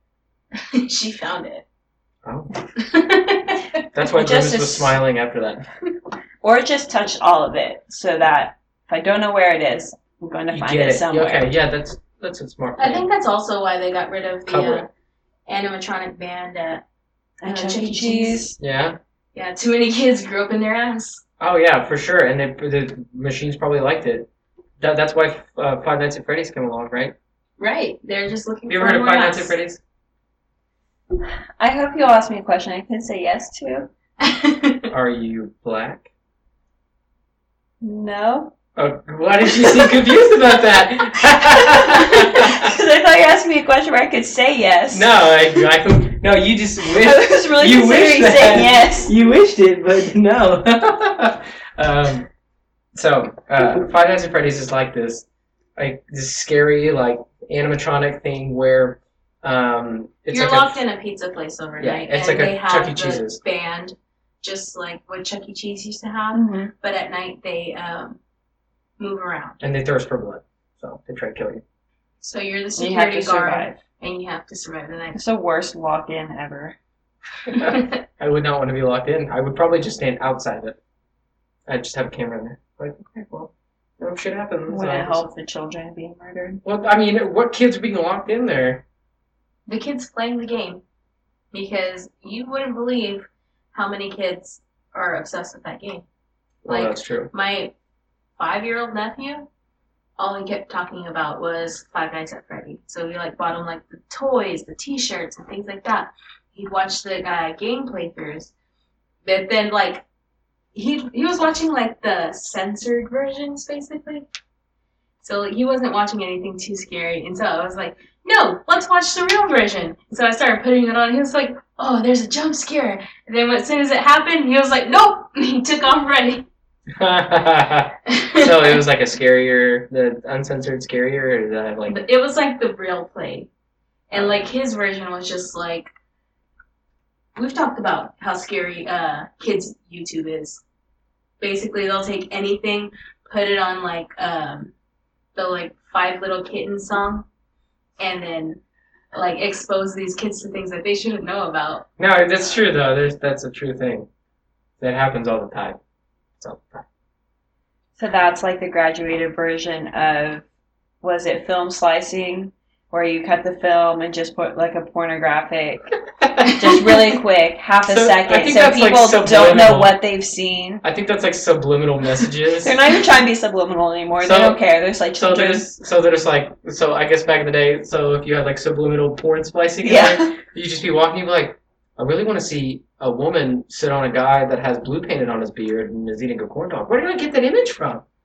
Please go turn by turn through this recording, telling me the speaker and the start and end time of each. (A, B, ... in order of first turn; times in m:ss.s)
0:00.6-0:01.6 A
0:02.2-0:02.5 B
0:02.8-0:03.8 A
0:03.9-0:05.7 B
0:04.0-0:05.0 C
0:06.4-0:11.4 C
0:10.5-0:13.1 B
0:12.8-0:14.9 A
0:14.5-0:14.9 B
0:15.5-0:16.8 A
0:17.4-0:18.6 C
0:17.4-0:18.5 A
0:18.6-0:19.0 B
0:19.4-0:21.2 A
0:21.4-0:24.3 B
0:24.8-0:27.1 B
0:27.6-0:29.6 A
0:28.7-0:29.8 B
0:31.6-0:33.9 C
0:34.2-0:34.9 A
0:34.9-0:36.1 B
0:37.8-0:38.5 C
0:38.8-0:42.8 B
0:41.5-0:45.2 C
0:44.9-0:52.3 B
0:46.9-0:49.1 C
0:53.0-1:00.8 B
1:00.3-1:08.2 A
1:01.8-1:03.4 B
1:06.3-1:06.7 C
1:09.0-1:09.6 A
1:09.6-1:11.6 B
1:12.2-1:15.2 A
1:12.8-1:13.8 C
1:15.1-1:16.8 C
1:17.5-1:20.8 B
1:17.6-1:17.9 A
1:21.7-1:25.2 B
1:24.7-1:26.6 C
1:26.6-1:28.8 B
1:29.7-1:30.8 A
1:31.5-1:36.0 A
1:36.6-1:37.3 B
1:36.7-1:37.7 A
1:38.4-1:39.5 A
1:40.2-1:48.5 A
1:49.2-1:50.0 A
1:50.7-1:54.2 A
1:55.2-2:06.5 A
2:06.9-2:12.0 B
2:08.1-2:08.8 A
2:11.9-2:13.5 A
2:14.1-2:15.9 A
2:14.1-2:14.5 B
2:17.4-2:20.6 A
2:21.4-2:24.7 A
2:25.4-2:27.2 A
2:28.0-2:28.6 A
2:29.1-2:31.9 A
2:32.0-2:34.1 B
2:34.8-2:35.8 B
2:36.4-2:36.9 B
2:38.0-2:40.4 C
2:41.0-2:45.9 C
2:46.2-2:46.5 B
2:46.4-2:46.8 A
2:46.6-2:50.8 C
2:47.9-2:50.0 B
2:50.8-2:52.8 B
2:52.6-2:55.6 C
2:54.2-2:54.6 B
2:55.2-3:08.0 B
2:59.8-3:00.3 C